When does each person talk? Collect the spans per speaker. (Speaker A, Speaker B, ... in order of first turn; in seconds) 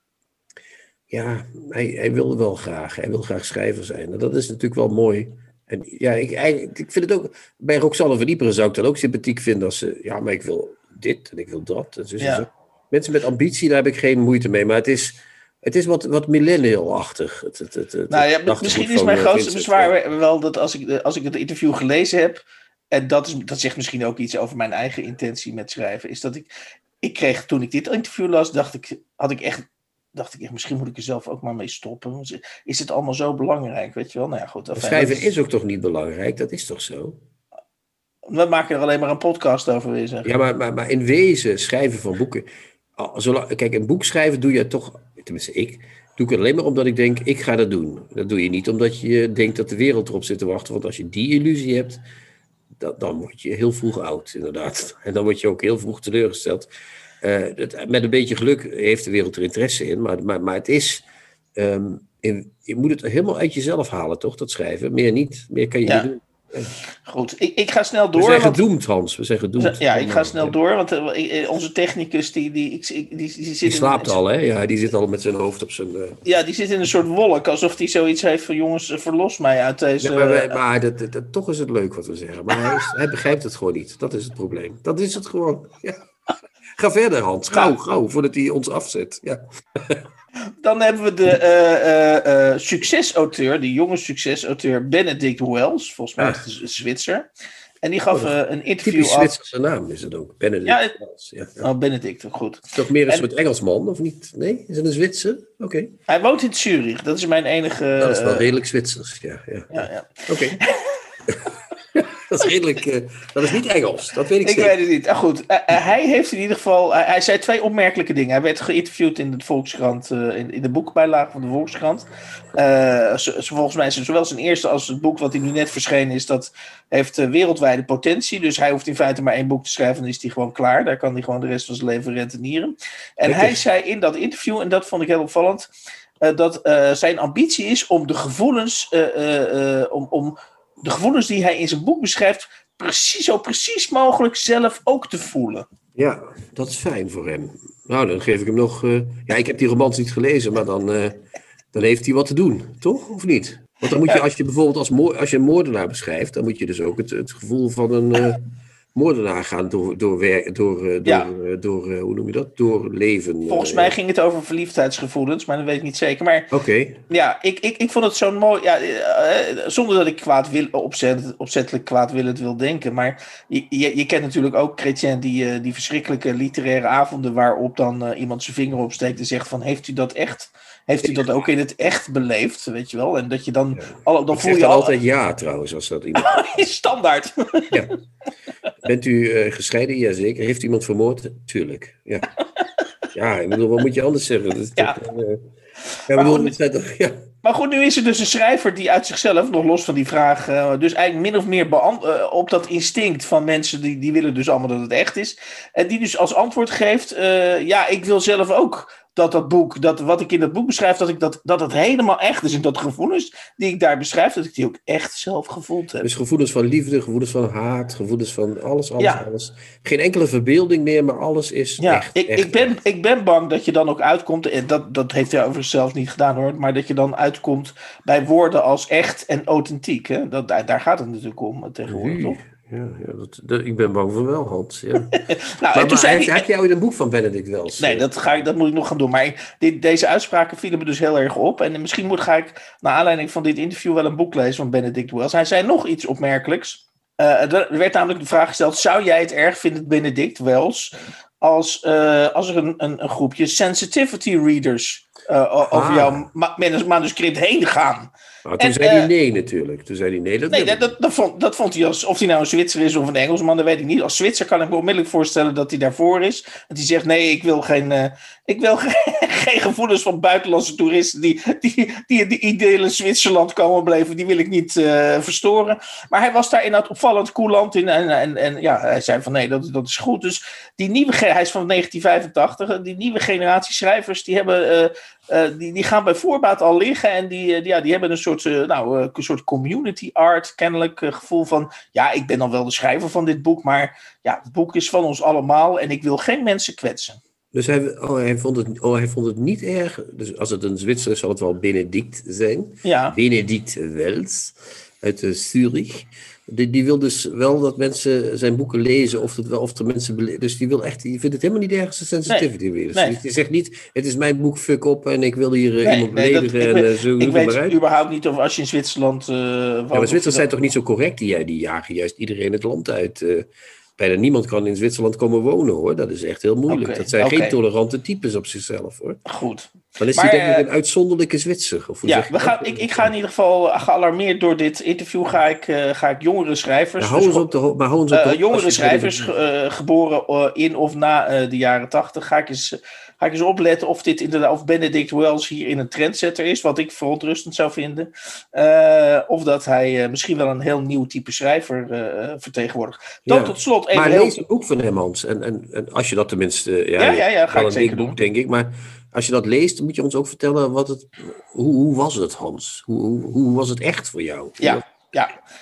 Speaker A: 1.1-19.9, 34.8-37.2, 40.2-52.0, 52.8-56.7, 57.2-66.7, 68.1-70.5, 73.6-76.2, 80.0-86.0, 86.7-90.0, 98.1-101.7, 102.7-105.9, 108.0-110.6, 111.3-114.8, 133.2-133.6, 145.9-158.4, 158.9-163.9, 166.5-167.0, 181.0-181.3, 183.8-186.4, 188.8-192.3, 193.1-195.4, 196.1-197.2, 216.0-222.7, 231.9-235.1, 235.7-238.1, 255.7-256.2, 258.4-260.9, 297.5-317.8, 319.9-329.2, 330.0-333.1, 337.0-339.3, 353.3-364.8
Speaker B: 12.2-12.4, 18.1-26.5, 27.0-35.3, 38.3-40.3, 67.0-68.6, 69.6-74.2, 76.2-80.6, 90.6-97.3, 97.8-99.4, 100.7-101.0, 101.6-103.3, 106.1-108.5, 109.7-111.0, 114.4-135.7, 136.2-145.7, 153.9-154.2, 163.5-166.5, 167.1-184.9, 186.2-187.7, 196.1-196.5, 197.4-216.1, 219.0-219.2, 221.8-232.4, 235.1-236.4, 237.8-259.1, 260.5-297.2, 302.8-303.1, 312.3-313.1, 315.8-320.5, 326.7-327.6, 329.2-330.6, 332.0-337.5, 338.1-354.4, 357.0-358.2, 364.6-365.3